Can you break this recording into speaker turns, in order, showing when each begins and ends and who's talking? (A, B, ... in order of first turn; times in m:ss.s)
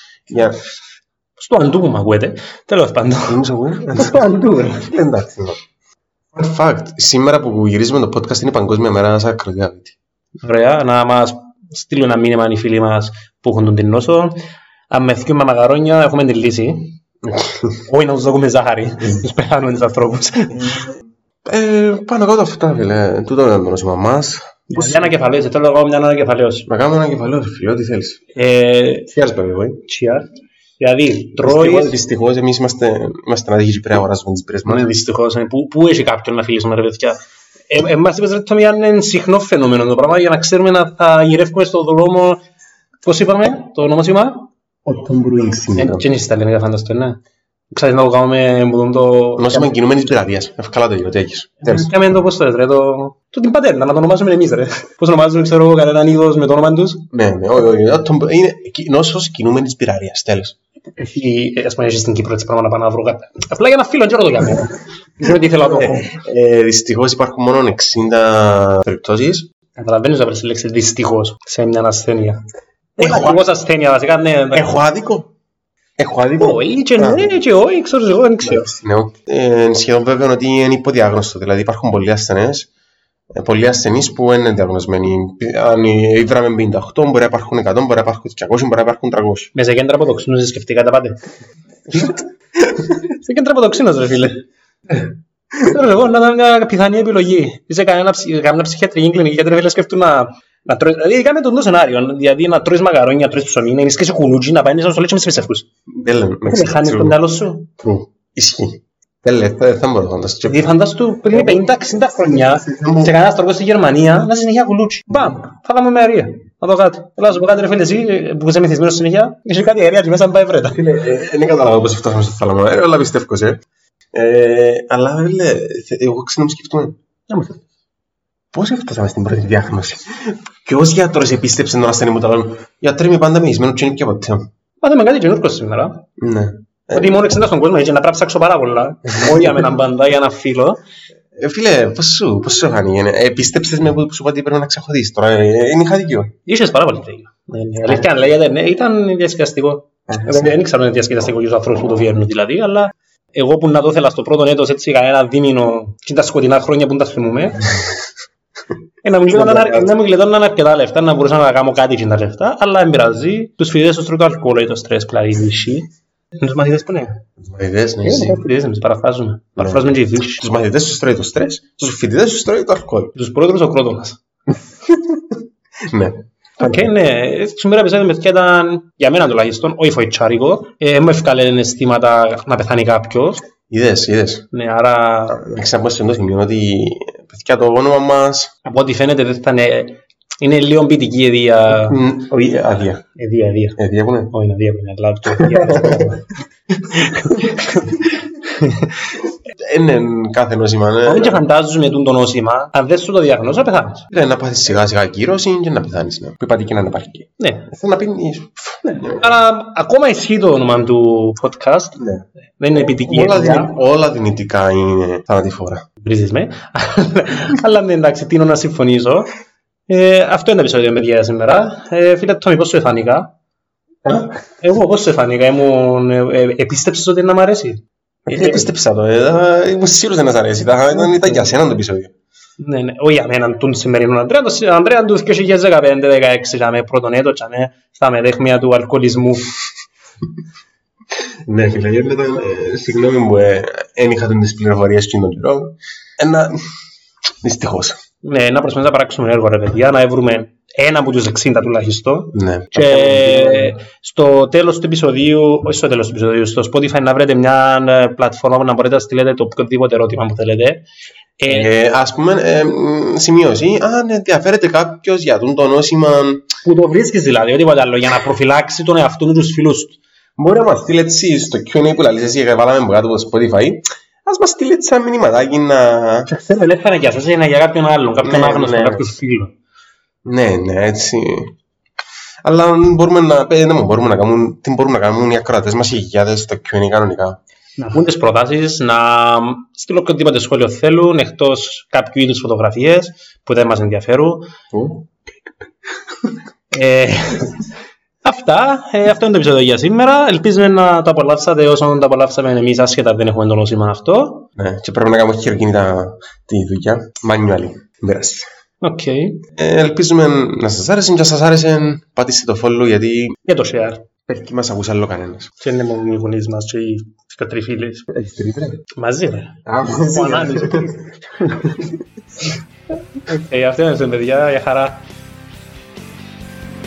0:00.3-0:00.6 A
0:01.4-0:05.0 B
0:03.3-0:05.6 A
0:06.3-0:10.0 A
0:10.4-0:14.3 B
0:14.9-0:17.0 B
0:17.3-0:17.8 A
0:17.9-0:20.8 B
0:20.6-0:20.9 A
0:21.4-0:25.1 A
0:24.7-0:26.7 B
0:26.7-0:28.2 A
0:28.3-0:29.1 B
0:29.1-0:29.8 A
0:29.8-0:30.3 B
0:30.8-0:31.9 B
0:31.4-0:34.8 A
0:34.6-0:42.4 B
0:43.0-0:44.5 B
0:44.8-0:46.0 A
0:45.8-0:47.2 B
0:47.7-0:49.7 B
0:49.4-0:51.9 A
0:51.6-0:57.1 B
0:57.1-1:00.6 A
1:01.0-1:06.2 B
1:05.5-1:09.5 A
1:09.8-1:12.4 B
1:13.0-1:13.4 A
1:13.0-1:14.7 B
1:14.5-1:15.3 A
1:16.0-1:17.3 A
1:16.4-1:18.7 B
1:18.4-1:22.7 A
1:23.4-1:29.5 A
1:29.5-1:31.2 B
1:31.9-1:32.2 B
1:33.1-1:45.7 B
1:45.9-1:47.2 A
1:46.4-1:47.7 B
1:47.8-1:50.7 A
1:50.4-2:00.8 B
1:51.3-1:51.8 A
1:52.4-1:53.1 A
2:00.7-2:03.6 A
2:04.1-2:07.0 A
2:07.3-2:07.6 B
2:08.5-2:14.5 A
2:14.8-2:16.0 B
2:16.2-2:17.4 A
2:16.9-2:20.8 B
2:19.1-2:19.7 A
2:21.4-2:26.3 A
2:26.5-2:37.7 B
2:27.8-2:28.2 A
2:30.1-2:30.6 A
2:39.0-2:47.2 B
2:39.3-2:39.9 A
2:47.4-2:48.4 A
2:48.0-2:50.4 B
2:49.6-2:53.1 A
2:53.1-2:54.2 B
2:54.8-2:55.2 A
2:55.9-2:56.8 A
2:56.6-3:03.4 B
3:03.7-3:04.5 A
3:04.5-3:05.4 B
3:05.3-3:08.5 A
3:08.6-3:12.0 B
3:11.8-3:13.0 A
3:13.2-3:13.8 B
3:13.8-3:14.3 A
3:14.3-3:16.2 B
3:15.4-3:16.1 A
3:16.9-3:19.0 B
3:19.6-3:21.4 A
3:21.0-3:24.1 B
3:24.1-3:29.3 A
3:27.4-3:27.7 B
3:28.8-3:32.0 B
3:32.0-3:32.2 A
3:32.6-3:33.7 B
3:32.8-3:35.8 A
3:36.0-3:39.3 B
3:39.9-3:43.3 B
3:44.1-3:48.7 B
3:48.3-3:52.1 A
3:51.0-3:51.4 B
3:52.6-3:59.5 B
4:01.5-4:06.6 A
4:07.4-4:08.0 A
4:08.2-4:20.9 B
4:12.3-4:13.8 A
4:21.4-4:21.7 B
4:21.5-4:26.5 A
4:26.6-4:30.0 B
4:30.4-4:36.3 A
4:36.3-4:39.5 B
4:38.2-4:39.0 A
4:40.2-4:41.5 A
4:42.4-4:47.4 A
4:47.8-4:54.5 B
4:54.7-4:55.1 A
4:56.7-4:57.6 B
4:58.2-5:04.5 B
5:04.6-5:08.5 A
5:08.8-5:09.4 B
5:09.6-5:13.4 A
5:13.4-5:14.0 B
5:14.3-5:15.5 A
5:15.6-5:18.1 B
5:18.1-5:18.8 A
5:19.0-5:21.1 B
5:19.6-5:20.9 A
5:21.4-5:21.9 A
5:23.2-5:25.0 B